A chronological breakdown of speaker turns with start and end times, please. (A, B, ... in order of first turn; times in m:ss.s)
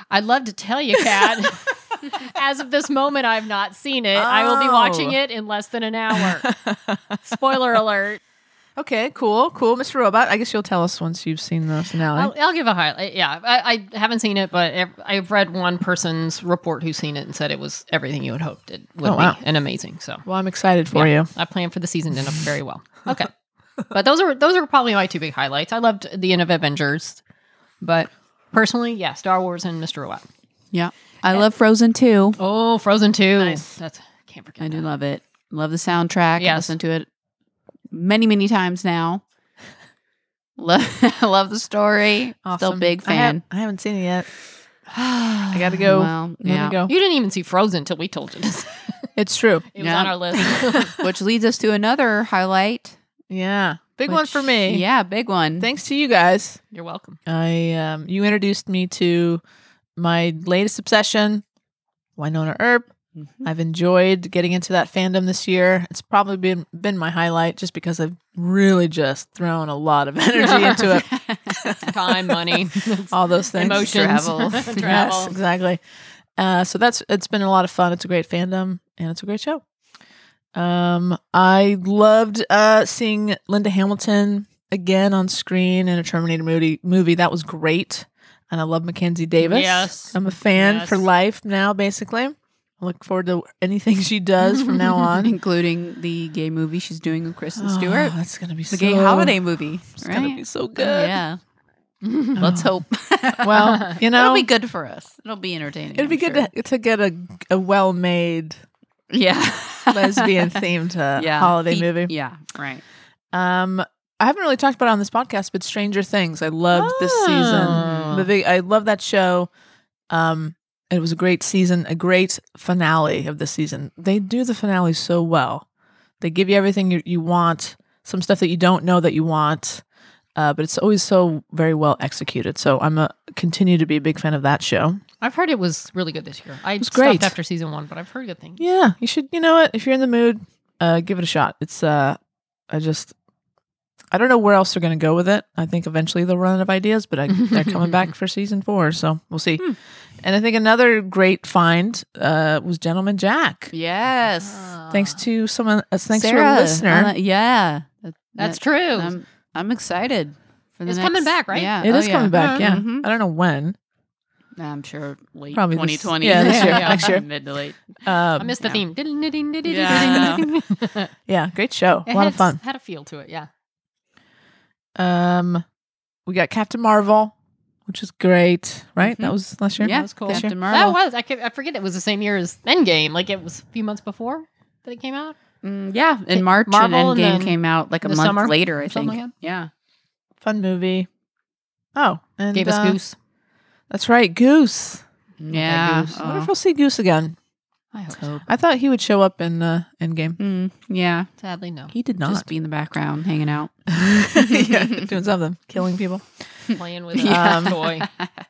0:00.1-0:06.5 A
0:01.0-0:01.3 B
0:04.2-0:05.2 B
0:06.1-0:07.3 B
0:07.2-0:08.2 A
0:08.8-0:12.3 B
0:12.1-0:20.2 A
0:19.0-0:19.4 B
0:20.3-0:21.3 B
0:20.9-0:23.3 A
0:23.9-0:27.2 A
0:27.8-0:30.2 A
0:30.7-0:32.4 C
0:32.4-0:34.9 A
0:34.6-0:37.1 C
0:36.4-0:36.8 A
0:37.9-0:39.2 C
0:40.6-0:43.4 C
0:42.4-0:44.3 B
0:45.3-0:46.8 C
0:45.5-0:46.9 B
0:46.9-0:48.7 A
0:49.2-0:49.7 B
0:49.7-0:51.0 A
0:49.8-0:53.0 C
0:50.6-0:50.9 B
0:53.3-0:54.8 B
0:54.1-0:55.7 C
0:55.6-0:56.6 B
0:56.7-0:57.2 A
0:57.3-0:59.4 B
1:00.0-1:01.4 B
1:02.2-1:02.9 B
1:03.4-1:14.0 B
1:10.4-1:11.0 A
1:11.1-1:11.8 C
1:11.8-1:15.4 A
1:13.7-1:14.8 C
1:14.8-1:15.8 B
1:16.4-1:19.6 B
1:20.5-1:35.3 B
1:29.4-1:31.1 A
1:35.2-1:38.2 C
1:37.6-1:39.4 B
1:38.7-1:41.4 C
1:39.9-1:41.2 B
1:42.0-1:42.4 A
1:42.4-1:42.7 B
1:42.4-1:46.5 C
1:43.4-1:44.5 B
1:46.0-1:48.6 B
1:49.1-1:50.6 C
1:49.9-1:52.1 B
1:51.2-1:52.8 C
1:53.3-1:59.5 B
1:56.7-1:58.3 A
1:57.7-1:58.3 C
2:00.1-2:05.6 B
2:06.2-2:09.8 B
2:10.4-2:15.0 B
2:15.2-2:18.6 A
2:16.8-2:17.4 B
2:18.6-2:23.1 B
2:24.1-2:29.7 B
2:27.3-2:27.8 A
2:30.2-2:33.7 B
2:33.7-2:34.7 C
2:34.4-2:35.2 A
2:34.9-2:37.1 B
2:36.1-2:43.1 C
2:38.4-2:39.2 A
2:40.9-2:42.7 A
2:41.8-2:43.8 B
2:44.6-2:47.9 C
2:45.5-2:47.3 B
2:46.3-2:47.2 A
2:48.0-2:48.6 B
2:48.4-2:51.1 A
2:49.6-2:50.5 C
2:51.3-2:52.6 B
2:52.1-2:53.5 A
2:55.0-2:55.6 B
2:56.3-2:57.3 B
2:57.9-3:00.6 B
2:59.8-3:01.0 C
2:59.8-3:05.4 A
3:05.6-3:09.7 C
3:06.3-3:09.4 A
3:10.4-3:11.1 B
3:12.0-3:13.0 B
3:12.5-3:13.2 A
3:13.9-3:15.0 B
3:15.4-3:16.5 C
3:15.6-3:17.4 B
3:17.9-3:18.4 A
3:18.5-3:20.4 B
3:20.4-3:21.3 C
3:21.4-3:21.9 A
3:21.9-3:22.5 B
3:22.2-3:25.1 C
3:23.9-3:26.3 B
3:26.7-3:28.1 A
3:26.7-3:28.3 C
3:27.2-3:27.8 B